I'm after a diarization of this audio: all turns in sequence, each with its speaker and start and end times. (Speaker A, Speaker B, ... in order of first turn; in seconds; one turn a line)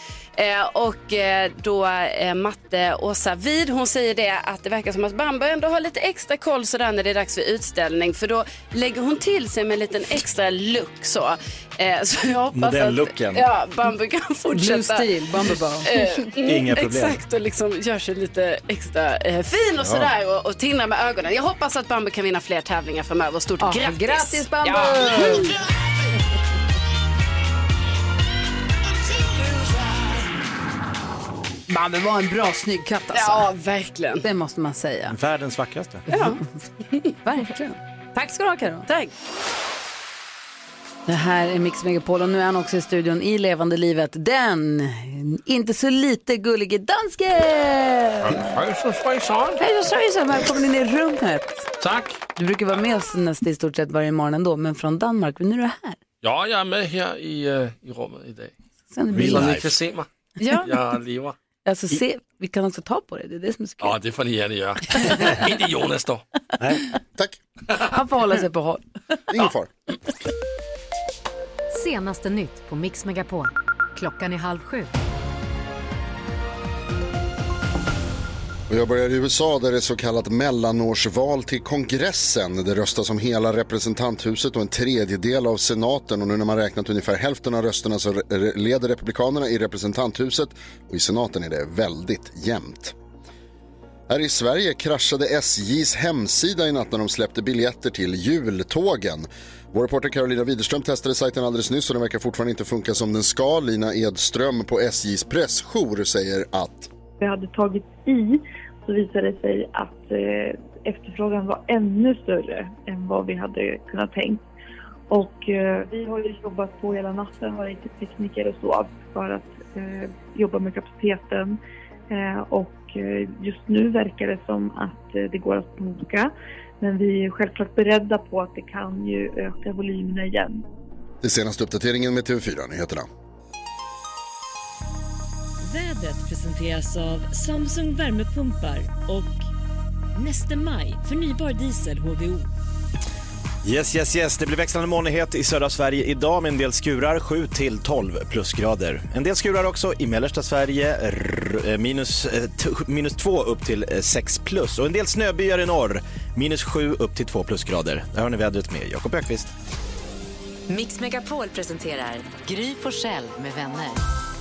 Speaker A: 0.4-15.1
Speaker B: 12.5-13.5
Speaker C: 14.5-15.9
Speaker A: 15.8-25.5
Speaker B: 16.4-17.2
Speaker B: 19.8-20.1
Speaker C: 23.6-25.5
Speaker C: 31.7-33.5
Speaker A: 33.1-34.2
Speaker C: 34.2-35.1
Speaker B: 35.1-36.1
Speaker C: 36.1-38.9
Speaker A: 36.1-36.4
Speaker C: 41.1-48.5
Speaker D: 48.2-49.6
Speaker C: 49.6-51.7
Speaker D: 51.8-52.2
Speaker C: 52.4-56.0
Speaker D: 56.2-58.5
Speaker C: 58.9-59.5
Speaker B: 59.1-59.7
Speaker D: 59.1-60.1
Speaker A: 60.4-60.7
Speaker D: 60.6-61.4
Speaker C: 61.6-64.0
Speaker D: 63.8-66.2
Speaker B: 66.6-66.8
Speaker C: 67.9-68.8
Speaker E: 69.3-69.7
Speaker F: 71.7-74.9
Speaker E: 78.7-93.0
Speaker E: 94.1-106.9
Speaker G: 107.2-114.5
Speaker G: 115.1-121.6
Speaker G: 122.1-130.7
Speaker E: 131.2-133.1
Speaker H: 135.6-139.5
Speaker H: 140.2-142.5
Speaker B: 143.6-159.5
Speaker F: 160.7-164.0